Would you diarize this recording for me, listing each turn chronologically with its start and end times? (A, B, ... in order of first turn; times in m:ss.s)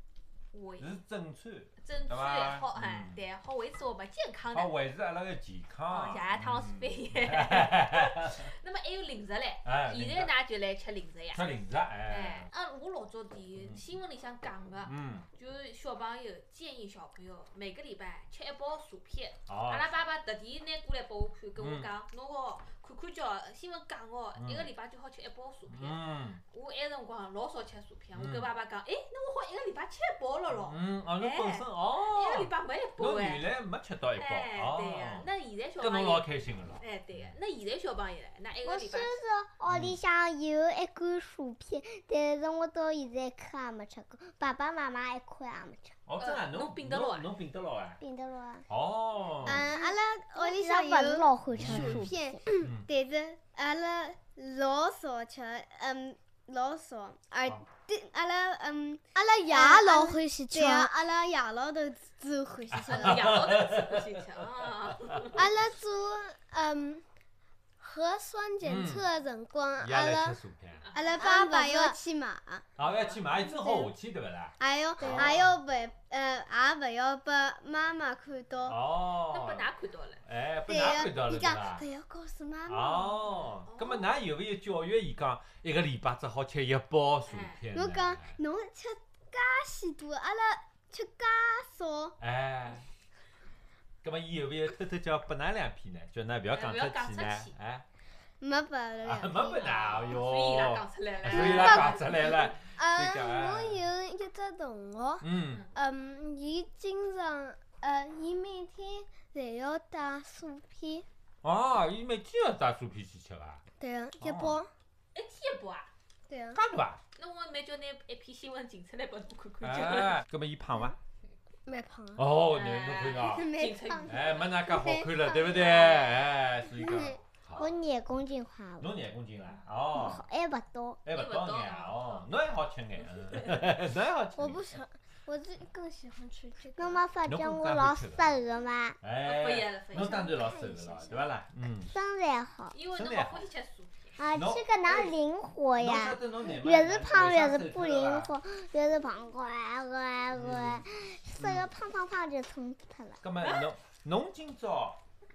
0:00.5-0:01.0 A
0:00.8-0:03.2 B
0:01.8-0:04.7 A
0:04.5-0:08.5 B
0:05.9-0:11.4 A
0:09.6-0:10.3 B
0:11.3-0:12.5 B
0:12.1-0:33.4 A
0:14.8-0:15.3 B
0:19.5-0:19.9 B
0:21.6-0:21.9 B
0:24.4-0:24.7 B
0:25.7-0:26.4 B
0:28.2-0:28.5 B
0:30.5-0:35.3 B
0:34.2-0:36.3 A
0:35.8-0:37.3 B
0:36.8-0:39.2 A
0:38.6-0:46.0 C
0:39.7-0:40.0 B
0:46.1-0:48.0 B
0:46.2-0:47.3 A
0:48.0-0:48.6 C
0:48.7-0:49.7 B
0:49.4-1:03.4 D
0:49.5-0:50.0 E
0:50.4-0:52.4 C
0:51.6-0:52.1 B
0:52.6-0:52.9 B
0:59.1-1:01.0 E
1:02.7-1:04.3 B
1:02.8-1:05.5 A
1:05.0-1:05.3 B
1:05.3-1:07.0 E
1:07.8-1:10.4 E
1:08.6-1:09.0 B
1:09.8-1:10.9 B
1:10.8-1:11.3 A
1:10.9-1:12.7 D
1:11.0-1:12.0 E
1:12.8-1:15.5 B
1:12.8-1:13.2 A
1:13.4-1:13.9 D
1:14.6-1:18.8 D
1:18.6-1:19.7 B
1:19.3-1:20.2 A
1:20.2-1:21.8 B
1:20.7-1:23.2 D
1:22.7-1:28.4 B
1:23.6-1:24.1 A
1:27.3-1:27.6 A
1:27.7-1:32.2 D
1:32.2-1:32.9 B
1:34.0-1:37.8 B
1:36.5-1:37.6 A
1:38.4-1:39.7 D
1:39.0-1:43.8 B
1:39.6-1:42.1 A
1:41.4-1:41.9 E
1:42.6-1:51.1 E
1:45.2-1:45.6 B
1:51.4-1:53.6 B
1:53.8-1:54.7 E
1:54.2-1:54.6 B
1:55.1-1:55.9 A
1:56.3-1:56.6 E
1:56.5-1:57.0 B
1:57.2-2:00.2 A
1:59.6-2:01.0 B
2:01.7-2:02.2 E
2:02.2-2:07.7 B
2:02.5-2:04.5 A
2:03.3-2:06.0 D
2:06.8-2:07.1 D
2:07.6-2:08.9 C
2:08.8-2:10.2 B
2:09.9-2:11.0 C
2:11.0-2:14.8 B
2:11.1-2:12.3 A
2:13.3-2:13.6 A
2:14.4-2:17.0 E
2:16.8-2:19.0 C
2:17.3-2:18.4 B
2:19.0-2:21.9 B
2:19.2-2:20.3 A
2:20.1-2:21.2 E
2:21.9-2:22.8 C
2:22.7-2:24.2 A
2:22.9-2:23.4 B
2:24.2-2:33.2 C
2:24.3-2:25.2 B
2:25.8-2:28.3 B
2:30.3-2:30.8 B
2:31.4-2:31.7 B
2:33.2-2:35.0 B
2:33.4-2:33.7 A